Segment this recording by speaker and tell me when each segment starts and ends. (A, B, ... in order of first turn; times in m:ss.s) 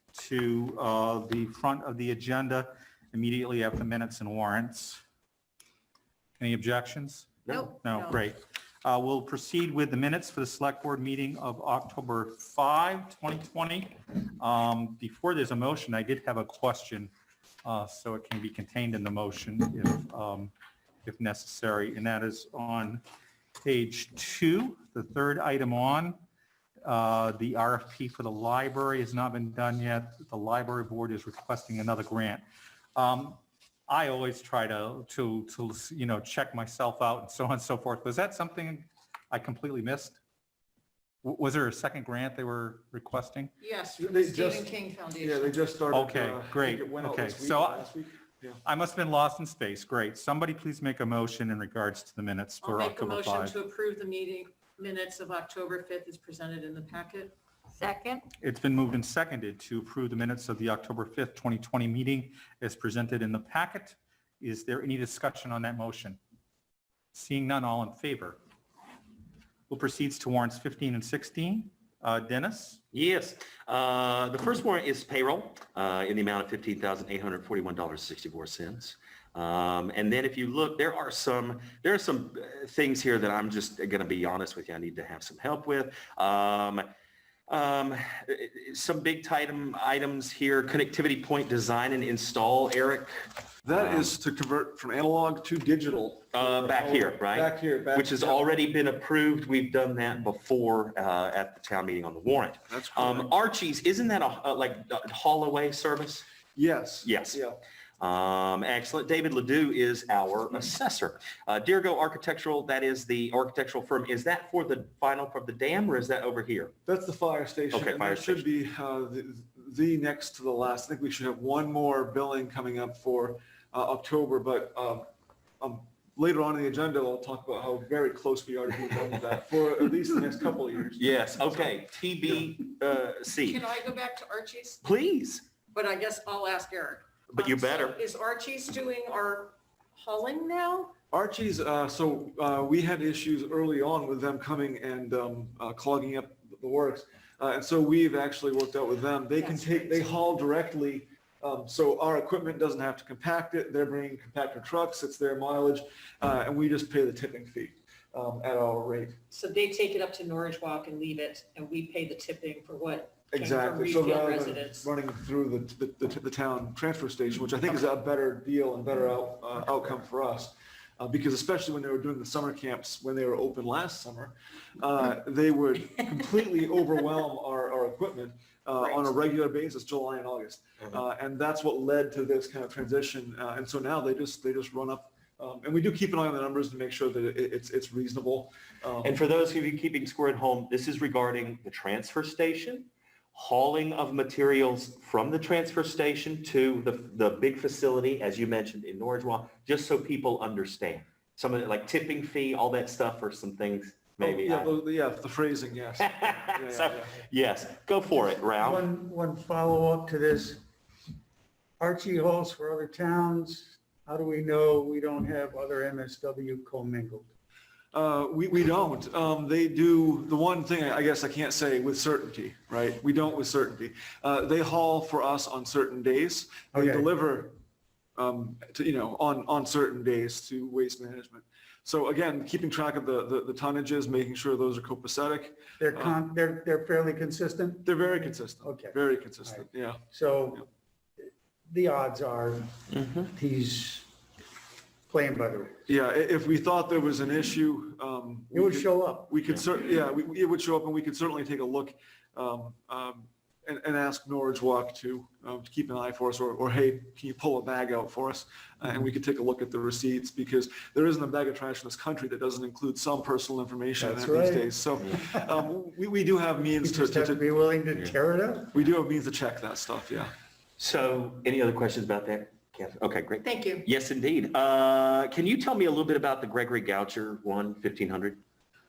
0:00.1-0:05.0 A
0:06.4-0:17.1 A
0:07.5-0:08.2 B
0:17.6-0:20.5 A
0:21.0-0:23.0 A
0:23.6-0:26.2 A
0:26.8-0:32.4 A
0:32.9-0:40.2 A
0:41.2-0:43.5 A
0:43.6-0:45.7 B
0:44.0-0:48.6 C
0:45.9-0:47.9 A
0:48.6-0:53.5 A
0:52.6-0:57.3 B
0:58.4-1:06.2 A
1:07.1-1:08.4 A
1:09.7-1:12.8 A
1:12.9-1:26.8 D
1:27.5-1:33.1 D
1:33.6-1:38.5 C
1:33.7-1:34.0 D
1:36.3-1:46.2 D
1:42.7-1:43.3 C
1:46.6-1:47.6 C
1:47.0-1:47.4 D
1:48.0-1:56.7 D
1:56.8-2:05.1 C
1:57.7-1:58.4 D
2:05.6-2:11.4 C
2:11.0-2:13.5 D
2:13.4-2:14.8 B
2:14.8-2:15.4 D
2:15.7-2:20.9 B
2:17.4-2:17.9 D
2:21.1-2:39.2 C
2:29.4-2:30.2 B
2:39.3-2:44.9 B
2:43.3-3:09.1 C
3:09.0-3:24.7 D
3:24.2-3:27.1 C
3:26.0-3:28.8 D
3:28.6-3:30.6 E
3:31.8-3:37.3 E
3:37.9-3:47.6 C
3:46.7-3:47.1 E
3:48.2-3:56.2 C
3:55.8-3:58.0 E
3:57.8-4:00.0 C
3:58.6-4:00.6 E
4:01.7-4:02.7 E
4:03.2-4:04.1 E
4:05.1-4:05.8 E
4:05.9-4:27.5 C
4:08.5-4:09.3 E
4:24.0-4:24.8 E
4:26.8-4:28.7 E
4:28.7-4:30.3 C
4:30.8-4:38.4 D
4:33.4-4:33.9 B